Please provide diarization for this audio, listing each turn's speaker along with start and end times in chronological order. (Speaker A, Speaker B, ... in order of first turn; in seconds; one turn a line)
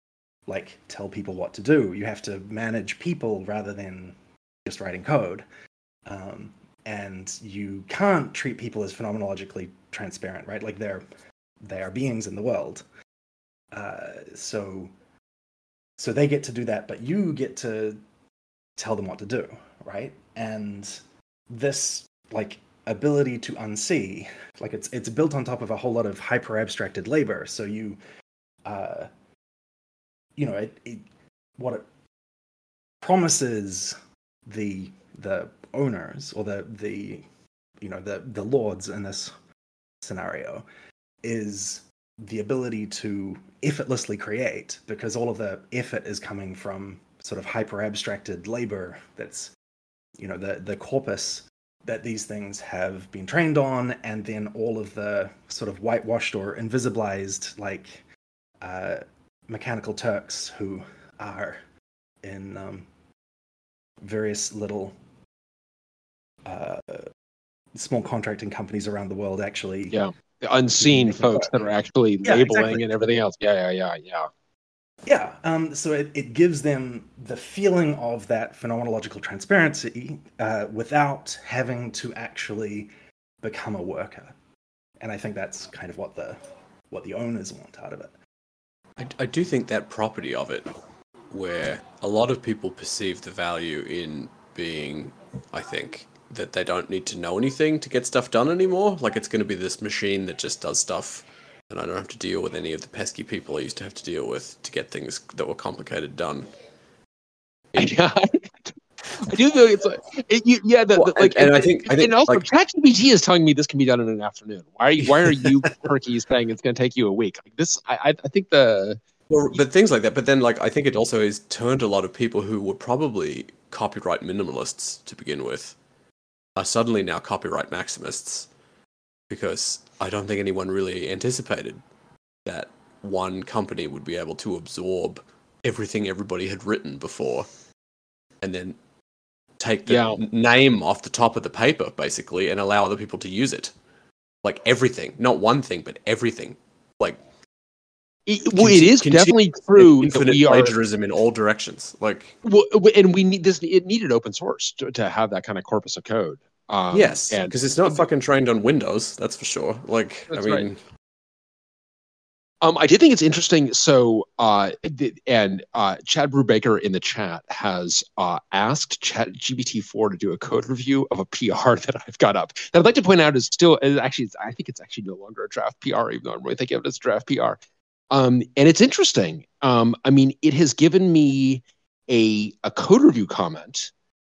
Speaker A: 0.5-5.5
Speaker A: 6.0-11.0
Speaker A: 11.6-12.8
Speaker A: 13.7-14.9
Speaker A: 16.0-18.0
Speaker A: 18.8-21.0
Speaker A: 21.5-28.0
Speaker A: 28.6-29.1
Speaker A: 30.4-31.0
Speaker A: 31.6-31.9
Speaker A: 33.0-33.9
Speaker A: 34.5-37.2
Speaker A: 37.8-39.3
Speaker A: 40.0-40.6
Speaker A: 41.2-49.5
Speaker A: 50.2-58.0
Speaker A: 58.6-61.6
Speaker A: 62.2-62.9
Speaker A: 64.0-65.0
Speaker A: 66.4-67.1
Speaker A: 67.7-70.0
Speaker B: 69.9-74.3
Speaker A: 70.8-71.6
Speaker A: 72.2-72.8
Speaker A: 75.0-82.9
Speaker A: 83.4-84.3
Speaker A: 85.0-86.4
Speaker A: 86.9-88.1
Speaker C: 89.0-90.7
Speaker C: 91.3-106.5
Speaker B: 107.8-108.7
Speaker B: 109.2-119.0
Speaker C: 110.9-112.5
Speaker C: 115.0-115.6
Speaker C: 119.3-125.8
Speaker C: 126.5-128.5
Speaker C: 129.3-131.8
Speaker C: 132.4-137.5
Speaker C: 138.4-138.8
Speaker C: 139.6-143.7
Speaker B: 139.8-140.2
Speaker C: 144.4-147.2
Speaker B: 148.3-150.8
Speaker C: 148.5-152.3
Speaker B: 152.4-158.1
Speaker C: 156.9-160.8
Speaker B: 160.3-160.7
Speaker B: 162.6-177.6
Speaker B: 178.1-183.9